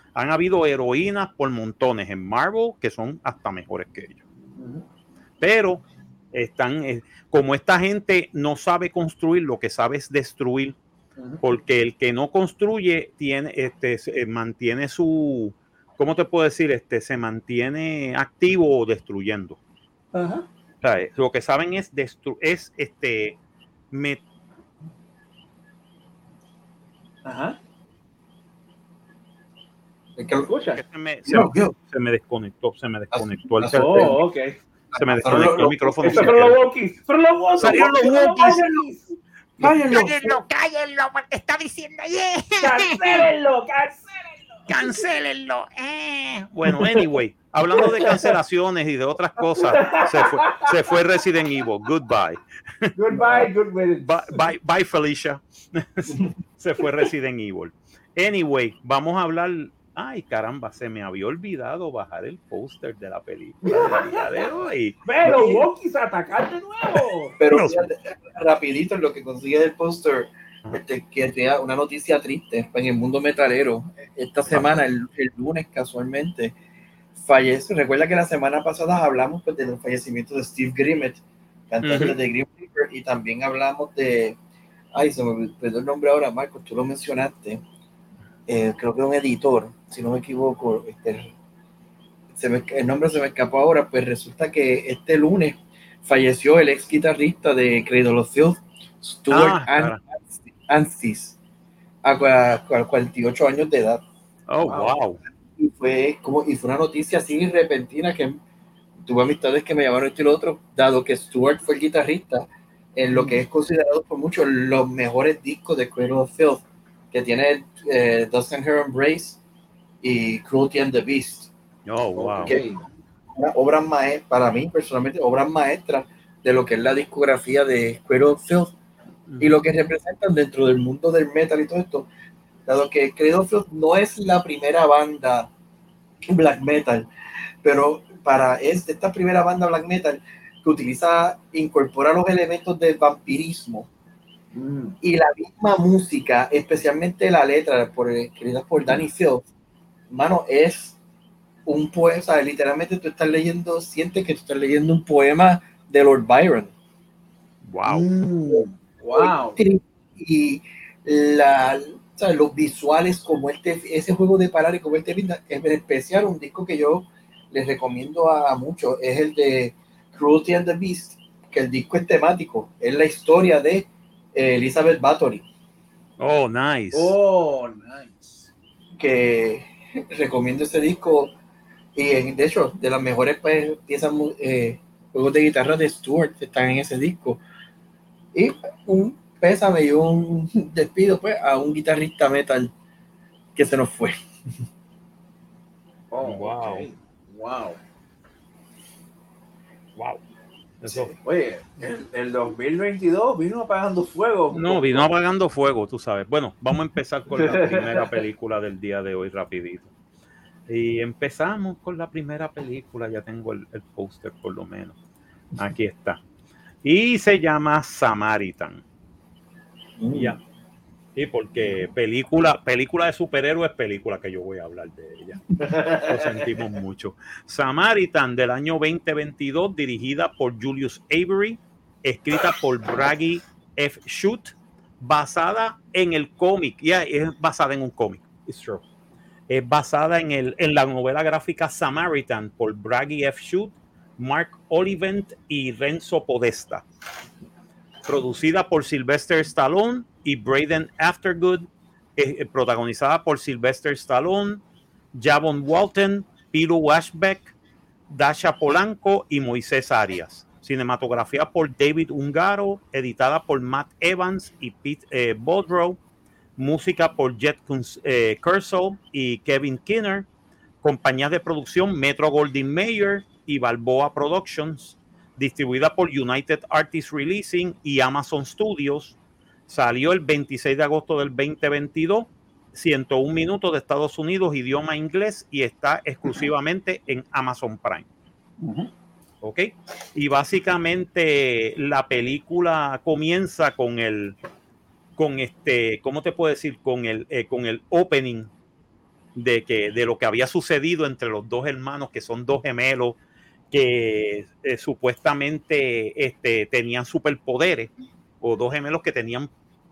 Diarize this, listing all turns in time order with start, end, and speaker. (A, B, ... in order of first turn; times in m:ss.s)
0:00.2-0:04.2 A
0:04.6-0:04.8 B
0:05.4-0:10.8 A
0:11.2-0:11.4 B
0:11.4-0:19.6 A
0:20.1-0:20.5 B
0:20.8-0:23.4 A
0:23.9-0:24.2 A
0:27.2-0:27.6 B
0:30.2-0:30.5 C
0:30.4-0:30.8 B
0:30.7-0:34.2 A
0:31.3-0:31.7 C
0:33.1-0:34.2 C
0:33.6-0:34.6 B
0:34.9-0:36.3 C
0:35.0-0:36.6 A
0:35.3-0:35.5 B
0:36.0-0:39.2 B
0:37.6-0:38.6 A
0:38.5-0:38.8 C
0:39.6-0:43.3 A
0:39.6-0:40.4 C
0:42.6-0:44.9 B
0:44.7-0:53.5 A
0:46.8-0:47.0 B
0:47.8-0:48.3 B
0:49.5-0:50.8 B
0:53.0-0:54.4 B
0:54.0-1:05.6 A
1:03.6-1:04.5 B
1:05.0-1:07.4 B
1:07.4-1:16.6 C
1:07.5-1:07.9 A
1:17.2-1:24.4 C
1:21.8-1:22.2 A
1:24.9-1:27.6 C
1:28.5-1:31.3 C
1:32.3-1:41.4 C
1:39.3-1:40.0 A
1:42.0-1:44.0 C
1:44.5-1:45.2 A
1:44.6-1:44.9 B
1:45.6-1:48.4 C
1:49.0-1:59.4 C
1:53.1-1:53.4 B
2:00.0-2:01.5 C
2:01.9-2:02.6 A
2:02.2-2:02.8 B
2:03.3-2:08.7 C
2:09.3-2:09.6 A
2:09.4-2:12.1 C
2:12.7-2:15.5 C
2:16.2-2:17.1 C
2:17.6-2:23.9 C
2:24.5-2:25.0 B
2:25.0-2:29.5 C
2:30.1-2:31.0 C
2:31.7-2:36.7 C
2:37.6-2:38.1 A
2:37.9-2:39.6 B
2:38.5-2:55.4 C
2:56.2-2:57.2 A
2:56.9-2:58.5 B
2:59.0-3:01.4 C
3:02.0-3:07.4 C
3:08.3-3:12.7 C
3:13.6-3:14.2 C
3:16.1-3:17.8 B
3:16.2-3:16.9 A
3:20.0-3:20.2 A
3:20.8-3:21.1 A
3:21.2-3:25.1 B
3:24.5-3:29.9 A
3:27.4-3:28.1 B
3:30.7-3:35.0 A
3:35.6-3:36.2 A
3:36.8-3:38.8 A
3:40.0-3:40.3 C
3:40.1-3:40.4 A
3:41.2-3:58.8 A
3:45.6-3:46.5 B
3:59.5-4:06.8 A
4:08.1-4:14.6 A
4:15.2-4:17.5 A
4:18.1-4:26.0 A
4:26.6-4:30.3 A
4:30.8-4:39.2 A
4:39.7-4:48.1 A
4:48.6-4:48.9 B
4:49.4-4:54.4 A
4:55.2-4:58.5 A
4:59.4-5:03.2 A
5:03.7-5:09.5 A